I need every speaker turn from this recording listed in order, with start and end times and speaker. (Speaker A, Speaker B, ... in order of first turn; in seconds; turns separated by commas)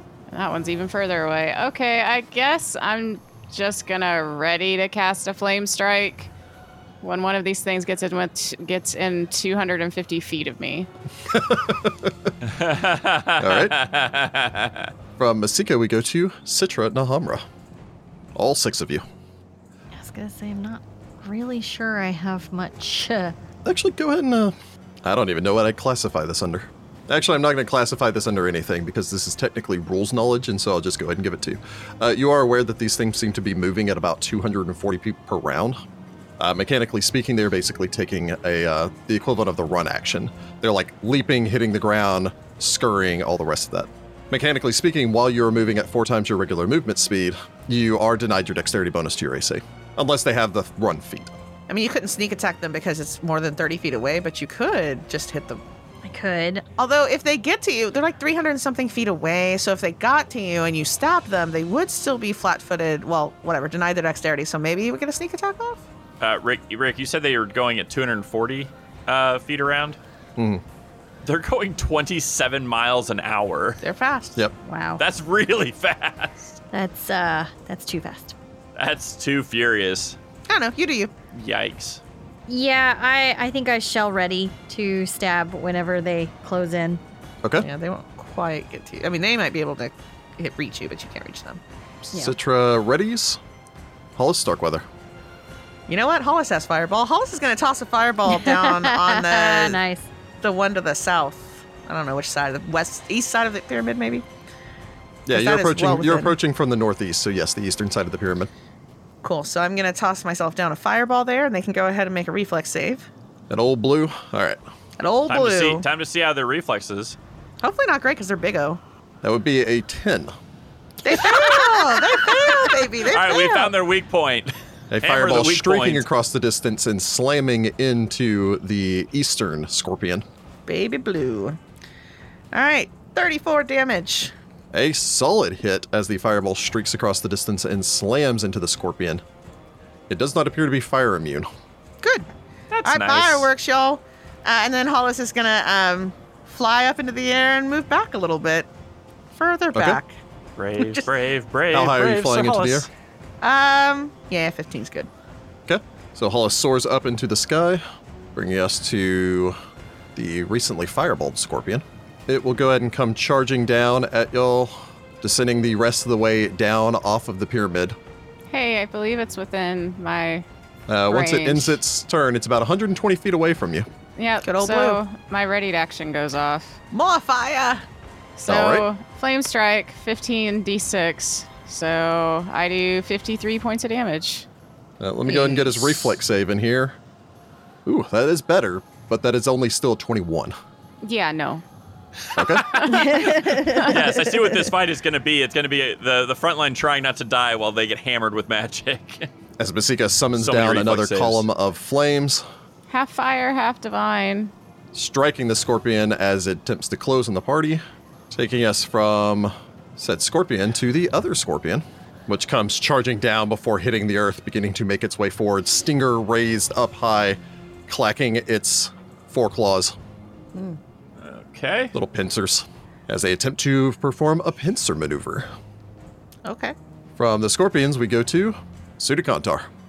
Speaker A: 0.3-6.3, Speaker A: 7.0-10.9, Speaker B: 11.3-12.3, Speaker C: 12.4-14.9, Speaker B: 13.4-13.8, Speaker B: 15.2-17.4, Speaker B: 18.4-19.0, Speaker D: 19.9-23.3, Speaker B: 23.6-35.8, Speaker B: 36.4-51.3, Speaker E: 51.7-55.6, Speaker D: 56.0-56.6, Speaker E: 56.8-65.8, Speaker C: 66.2-70.0, Speaker B: 70.4-70.6, Speaker C: 71.2-73.8, Speaker E: 73.8-74.4, Speaker D: 74.6-75.0, Speaker C: 75.0-76.6, Speaker D: 76.7-78.3, Speaker C: 78.8-80.2, Speaker E: 80.5-81.1, Speaker C: 81.3-82.0, Speaker D: 82.5-87.0, Speaker E: 87.6-91.6, Speaker B: 92.0-93.4, Speaker B: 94.2-94.8, Speaker E: 95.9-99.8, Speaker D: 98.3-100.1, Speaker E: 100.4-104.2, Speaker B: 105.2-108.5, Speaker E: 105.3-106.3, Speaker E: 109.2-113.1, Speaker B: 113.5-114.6, Speaker E: 115.0-115.8, Speaker C: 115.3-117.2, Speaker E: 117.6-118.8, Speaker B: 119.2-120.3, Speaker E: 121.0-123.7, Speaker C: 121.3-121.8, Speaker C: 123.0-126.1, Speaker B: 124.9-130.2, Speaker E: 130.7-131.6, Speaker E: 132.5-134.3, Speaker B: 134.7-139.2, Speaker B: 140.1-141.5, Speaker E: 142.0-142.3, Speaker C: 142.7-143.5, Speaker E: 142.8-148.7, Speaker E: 149.3-150.2, Speaker B: 149.7-150.0, Speaker C: 150.6-152.9, Speaker E: 150.8-151.1, Speaker B: 151.7-152.9, Speaker E: 153.4-155.1, Speaker B: 155.7-157.8, Speaker B: 158.3-159.5, Speaker B: 160.1-167.9, Speaker A: 168.5-170.4, Speaker B: 170.9-173.9, Speaker A: 171.1-171.7, Speaker A: 174.2-176.8, Speaker E: 174.4-175.0, Speaker E: 176.9-177.8, Speaker A: 178.4-184.4, Speaker B: 178.5-178.9, Speaker B: 185.0-186.9, Speaker B: 187.8-190.5, Speaker A: 191.0-191.6, Speaker B: 192.3-192.8, Speaker C: 192.4-199.3, Speaker A: 192.6-194.1, Speaker D: 192.9-194.1, Speaker B: 199.6-202.4, Speaker C: 200.4-201.4, Speaker A: 202.9-204.5, Speaker B: 204.9-219.9, Speaker E: 220.5-220.8, Speaker C: 221.2-221.9, Speaker B: 221.9-225.5, Speaker E: 226.4-226.7, Speaker B: 227.2-229.7